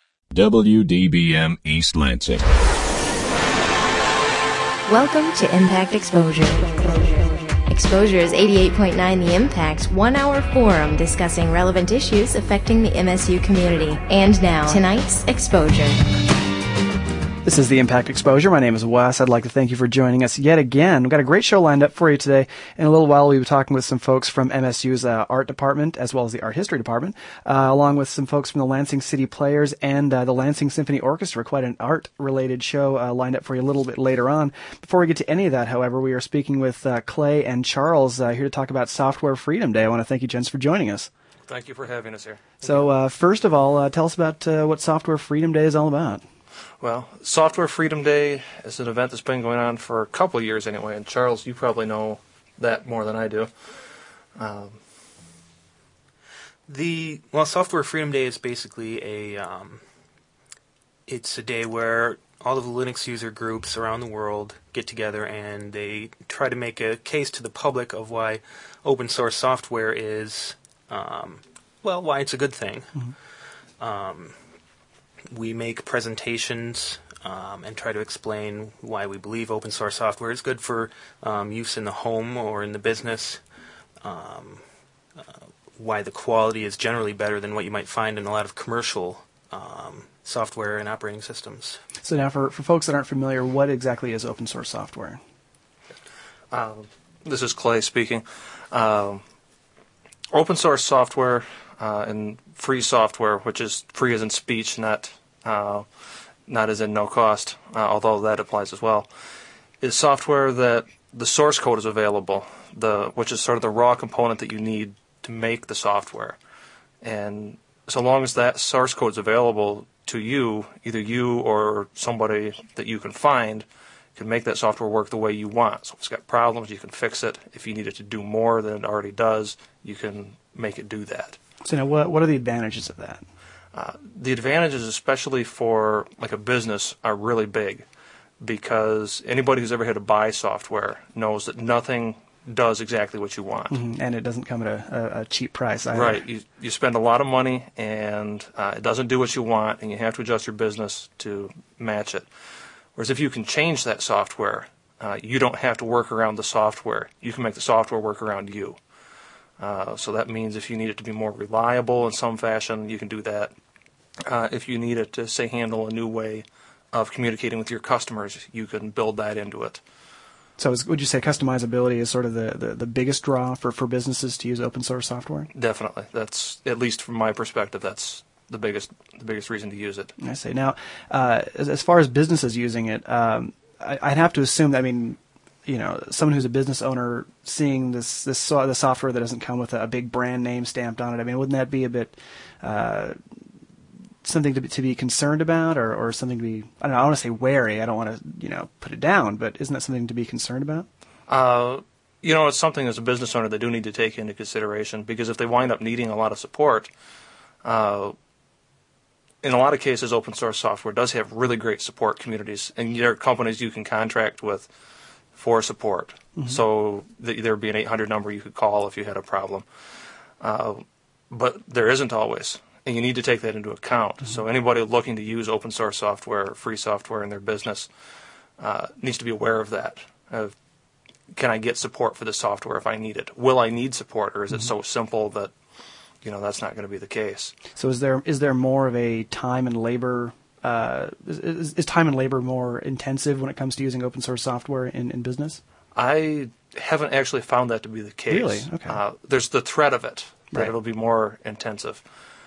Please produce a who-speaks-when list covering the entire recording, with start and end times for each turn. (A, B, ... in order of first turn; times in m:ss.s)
0:00.4-0:02.4 A
0:04.9-0:16.0 B
0:17.4-0:41.1 C
0:41.5-0:42.9 D
0:42.6-0:46.3 C
0:46.8-0:53.7 D
0:54.4-0:54.8 D
0:56.7-1:00.0 E
1:01.1-1:14.6 E
1:15.3-1:31.8 E
1:32.0-1:35.2 C
1:36.5-1:39.2 D
1:40.3-1:45.9 D
1:46.5-1:49.1 D
1:49.8-1:56.4 D
1:57.0-2:11.4 D
2:11.6-2:13.2 C
2:13.7-2:17.9 D
2:18.4-2:23.8 D
2:23.7-2:26.2 C
2:25.9-2:32.3 D
2:33.0-2:38.8 D
2:39.6-2:43.6 D
2:44.2-2:49.8 D
2:50.6-2:55.5 C
2:55.6-3:00.1 D
3:00.2-3:13.2 C
3:14.2-3:20.9 C
3:21.3-3:26.9 D
3:27.6-3:28.2 D
3:29.4-3:34.7 D
3:35.4-3:39.7 D
3:40.4-3:47.9 D
3:48.6-3:50.6 D
3:51.3-3:55.5 D
3:56.2-3:57.5 D
3:57.8-4:05.6 C
4:06.0-4:12.0 D
4:08.3-4:09.0 C